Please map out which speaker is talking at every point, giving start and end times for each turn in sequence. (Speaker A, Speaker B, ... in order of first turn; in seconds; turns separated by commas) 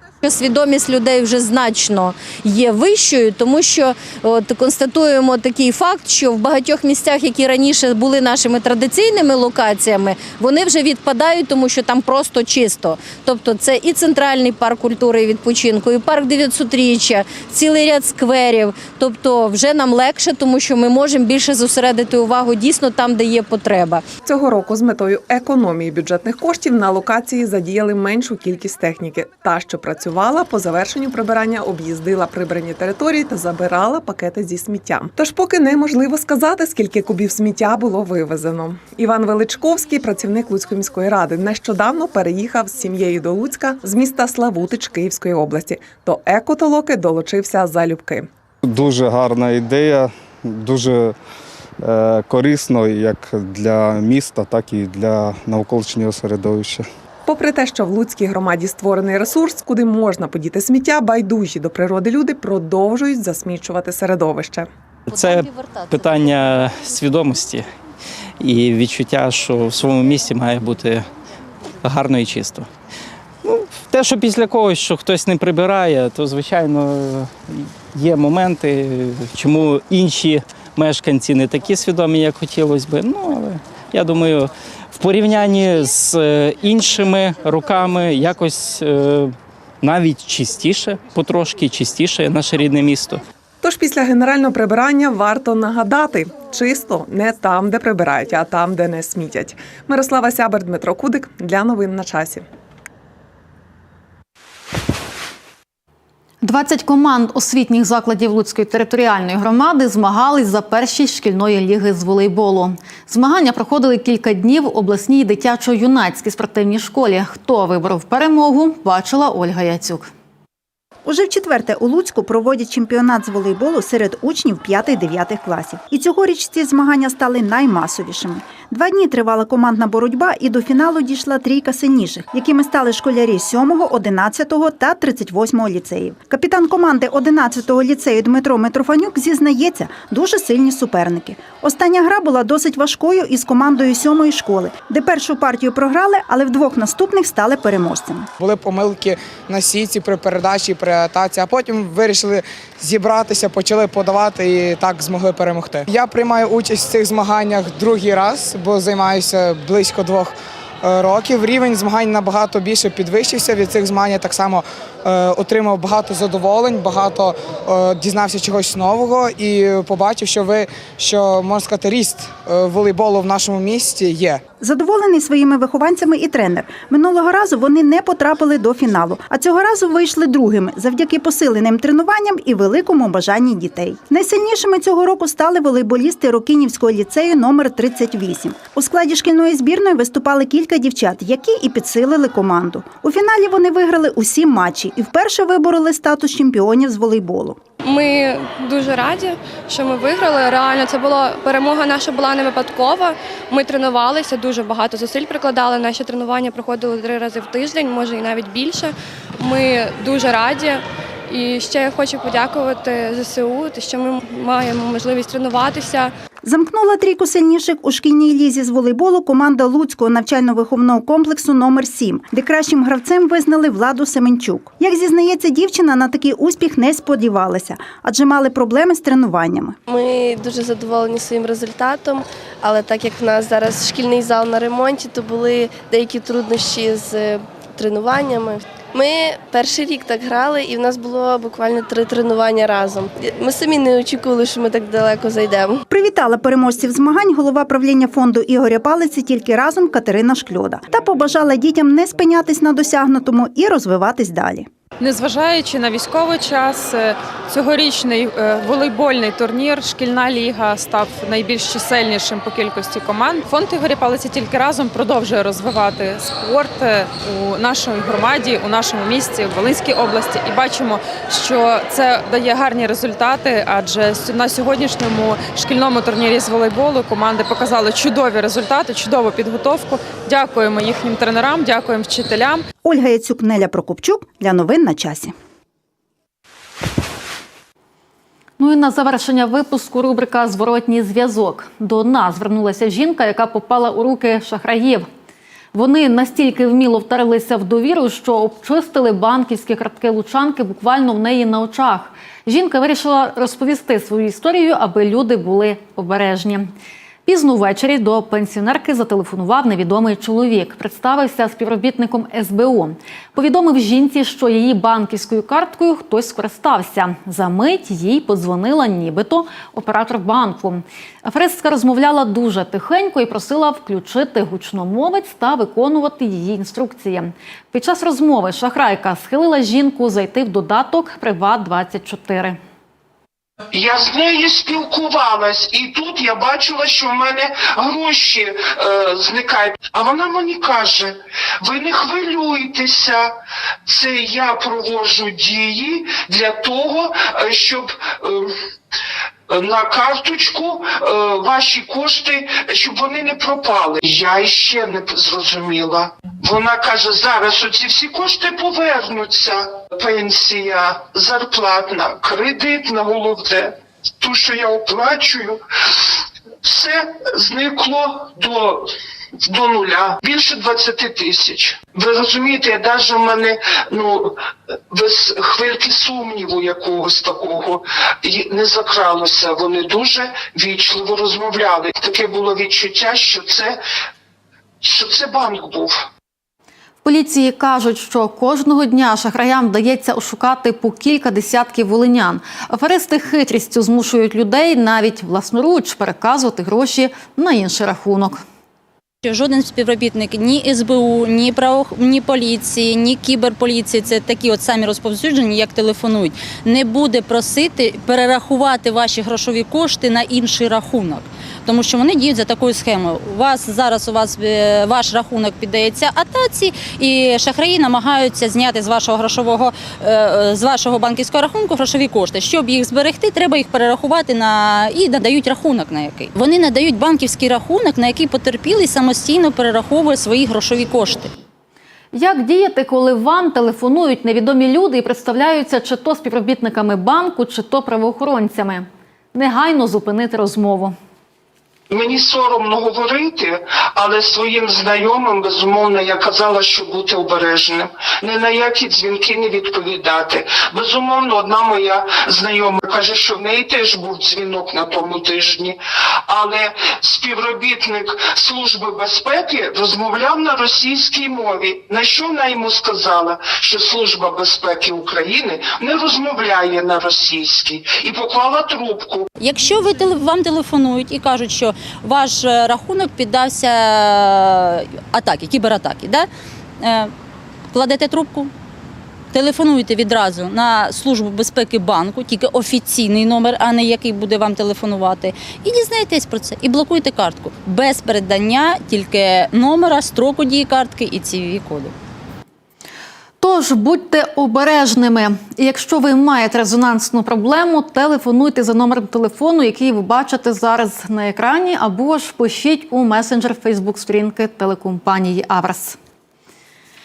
Speaker A: 0.2-24.0, Speaker B: 24.2-48.3, Speaker C: 48.7-51.1, Speaker C: 51.9-56.9, Speaker B: 57.3-64.7, Speaker D: 65.1-67.7, Speaker D: 68.4-71.1, Speaker D: 71.8-72.7, Speaker D: 73.4-93.2, Speaker B: 93.6-102.5, Speaker E: 106.4-120.1, Speaker F: 121.0-148.3, Speaker G: 148.4-174.4, Speaker F: 174.6-197.6, Speaker H: 197.8-216.1, Speaker F: 216.4-229.8, Speaker I: 229.9-245.8, Speaker F: 245.9-254.7, Speaker J: 255.0-282.6, Speaker F: 282.8-285.4, Speaker E: 288.6-295.1, Speaker E: 295.7-306.7, Speaker E: 307.2-332.6, Speaker K: 333.7-343.4, Speaker K: 343.9-348.6, Speaker K: 349.5-383.8, Speaker K: 384.8-386.1, Speaker E: 387.0-398.4, Speaker L: 399.2-431.3, Speaker E: 432.1-440.9, Speaker K: 441.9-469.3, Speaker L: 469.4-476.3, Speaker L: 476.8-477.1, Speaker L: 477.7-478.5, Speaker L: 479.3-491.9, Speaker E: 493.4-506.0